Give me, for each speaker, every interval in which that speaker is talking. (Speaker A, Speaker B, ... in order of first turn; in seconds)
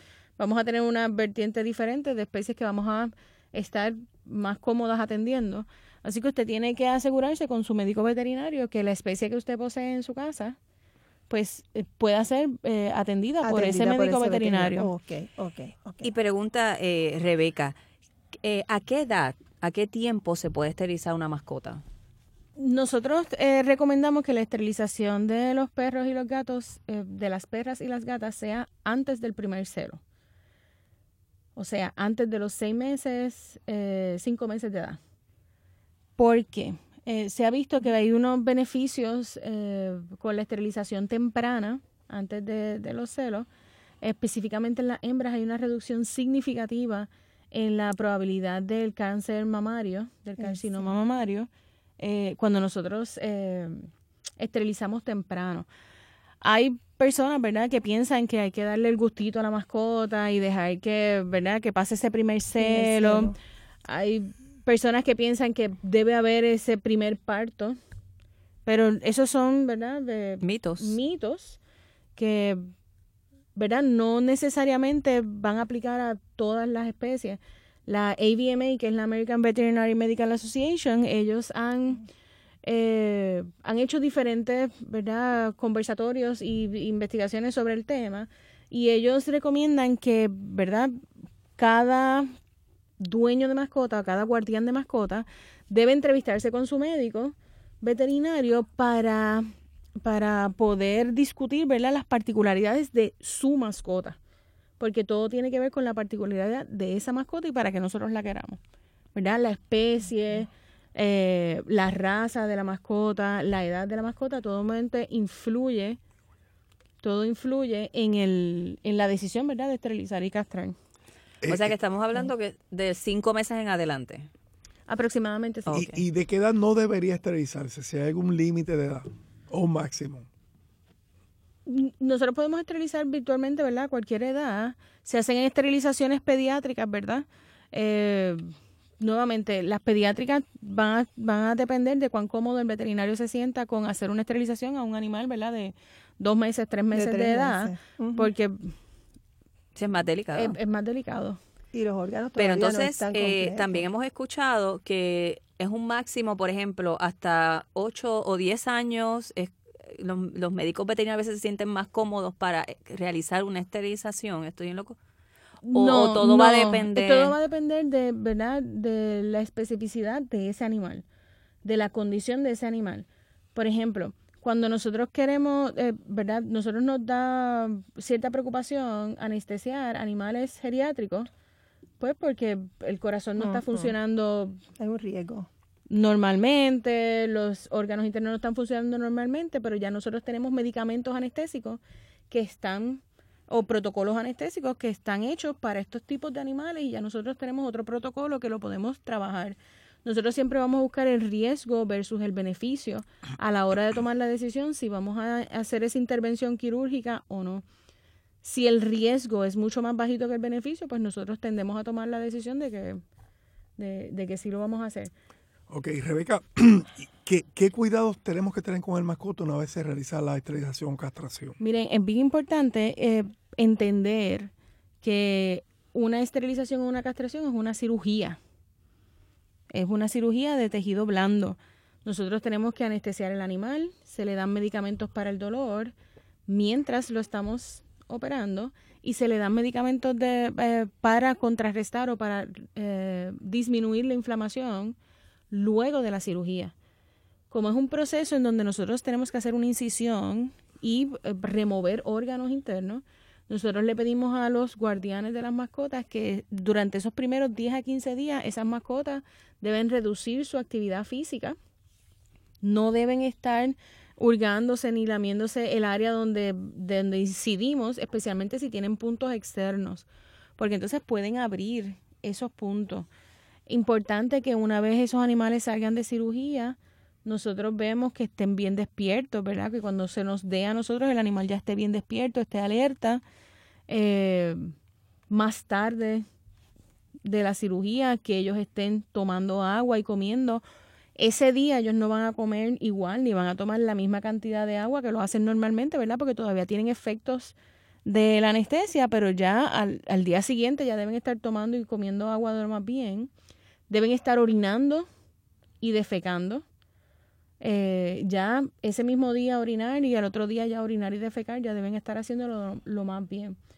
Speaker A: 0.4-10.6, 11.3-14.9, 22.6-30.0, 31.6-35.0, 36.2-43.5, 44.0-55.7, 56.4-63.3, 63.8-67.8, 68.7-71.6, 72.2-72.7, 73.5-82.0, 82.6-91.0, 91.6-92.3, 93.0-104.2, 104.8-108.6, 109.1-116.0, 117.0-120.7, 124.9-125.8, 131.7-148.7, 150.3-151.4, 165.6-171.0, 171.6-181.3, 182.0-184.6, 185.9-207.6, 208.4-213.0, 213.8-215.1, 221.6-224.5, 225.0-228.4, 229.7-235.9, 236.5-244.9, 245.5-246.7, 247.5-261.6, 262.6-270.1, 270.6-273.1, 273.7-283.2, 283.9-284.7, 285.3-286.2, 287.2-290.6, 291.2-303.3, 303.9-305.1, 305.8-306.6, 307.6-313.6
Speaker B: 13.4-16.1, 50.4-50.9, 62.6-63.4, 146.9-148.3, 151.7-153.9, 183.4-183.9, 184.8-185.5
Speaker C: 16.0-17.7, 18.4-21.8, 70.4-71.0, 121.5-124.3, 125.7-126.0, 149.7-150.6, 152.3-164.9, 165.7-167.3
Speaker D: 121.4-121.7, 125.7-130.2, 215.7-221.6